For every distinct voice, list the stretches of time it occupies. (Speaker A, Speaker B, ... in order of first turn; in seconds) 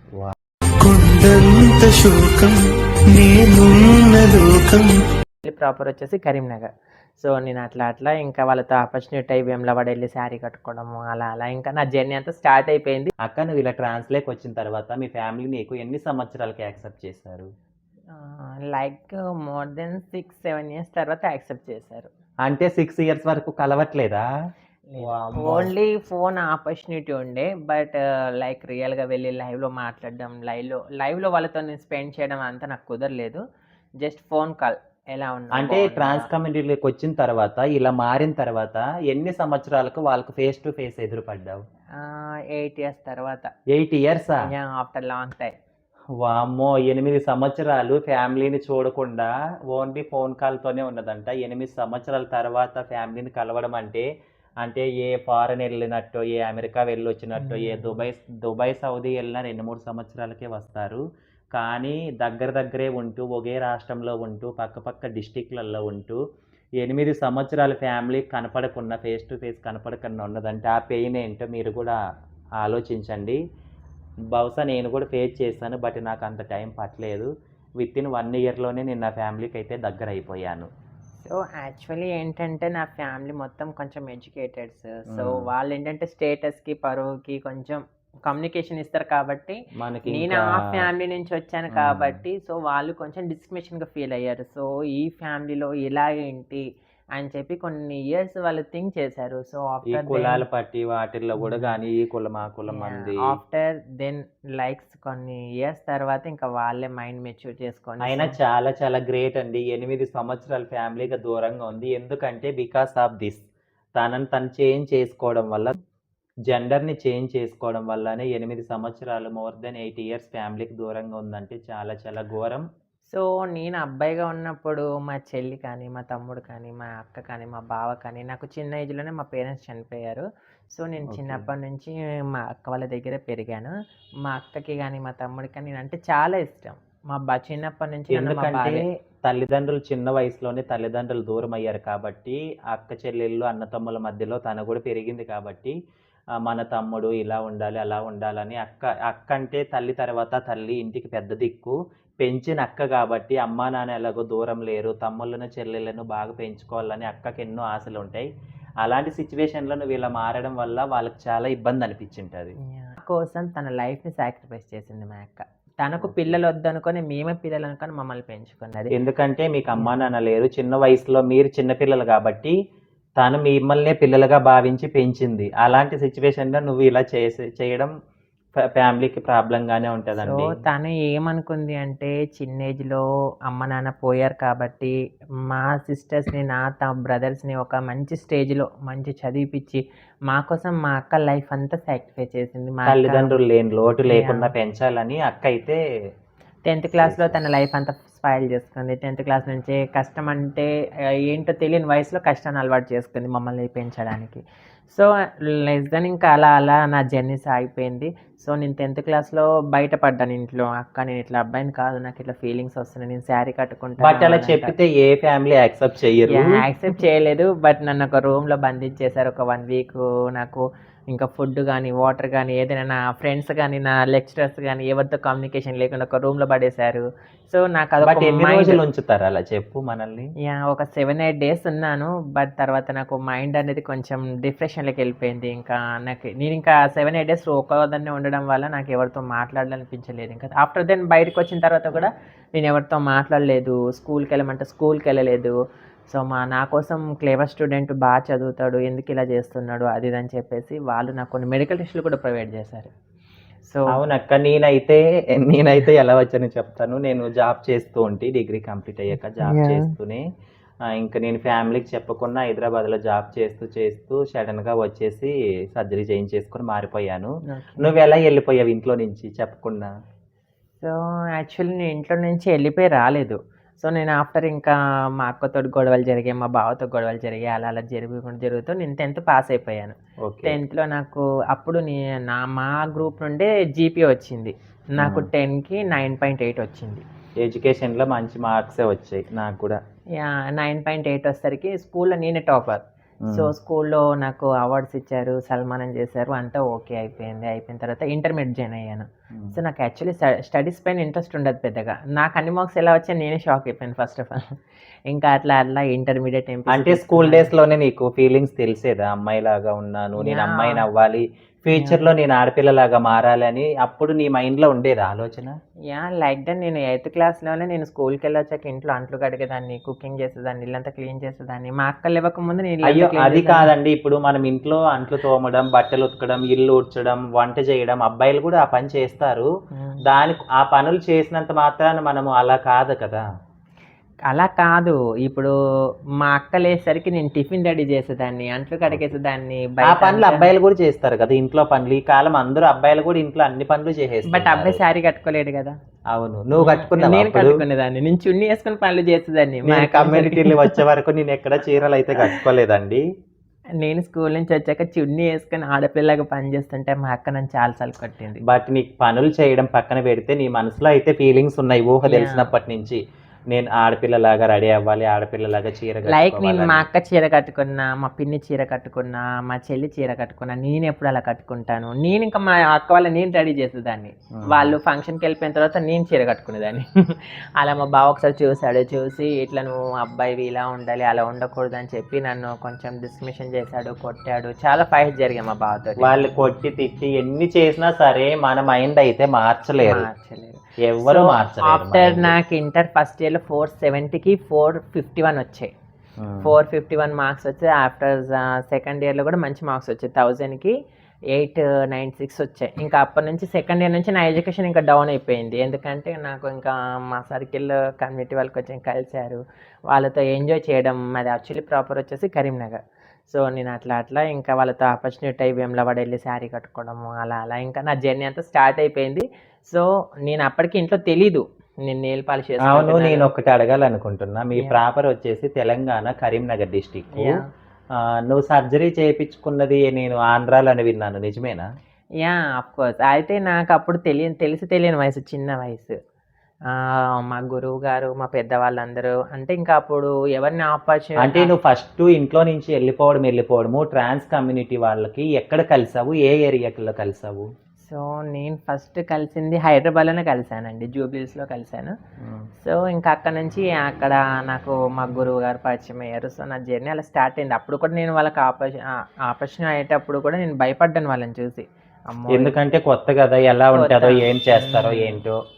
Speaker A: 0.8-5.0
Speaker B: 5.4-13.1, 18.1-22.1, 24.9-33.4, 34.0-36.3, 42.0-43.5, 44.5-45.5, 57.4-58.0, 81.2-100.4, 101.4-101.8, 102.7-108.3, 123.1-133.7, 134.2-138.8, 162.6-168.9, 180.2-184.9, 185.5-193.3, 194.1-194.5, 196.7-214.7, 216.3-228.8, 230.4-245.6, 246.1-252.9, 259.4-259.9, 267.5-267.9, 270.8-279.9, 280.5-287.0, 290.2-304.6, 305.1-307.5, 310.2-310.9, 311.7-312.0, 315.9-323.7, 329.8-330.0, 334.3-335.5, 336.2-340.5, 344.3-345.8, 346.6-350.8, 353.8-358.4, 362.1-362.5, 366.1-386.2, 389.8-395.7, 396.4-400.8, 401.3-423.3, 427.2-427.5, 432.2-435.9, 436.7-441.5, 447.8-451.9, 452.6-462.5, 463.7-465.2
Speaker C: 13.2-17.5, 22.4-24.3, 25.0-25.7, 35.5-41.6, 43.7-44.5, 46.2-54.1, 54.6-61.0, 61.5-66.2, 66.8-72.0, 72.6-73.4, 74.3-77.3, 77.8-80.7, 85.1-85.5, 89.8-90.9, 91.7-92.2, 99.9-103.3, 108.1-113.4, 114.0-115.7, 116.5-122.6, 131.1-131.5, 138.1-145.8, 146.4-158.3, 158.8-162.6, 166.0-166.4, 168.9-172.6, 173.2-177.9, 178.7-180.6, 192.9-195.8, 197.0-197.4, 214.0-217.0, 228.0-230.3, 253.9-260.2, 260.9-269.9, 280.2-280.6, 285.0-285.3, 287.4-289.8, 293.2-293.5, 306.7-315.5, 322.9-329.5, 330.1-333.2, 338.9-339.1, 339.9-344.8, 346.1-347.6, 349.6-353.0, 358.5-363.0, 363.5-366.9, 374.4-374.8, 386.0-390.1, 390.9-392.4, 396.2-396.5, 422.7-427.4, 428.3-431.6, 441.2-447.5, 452.2-452.5, 462.3-465.4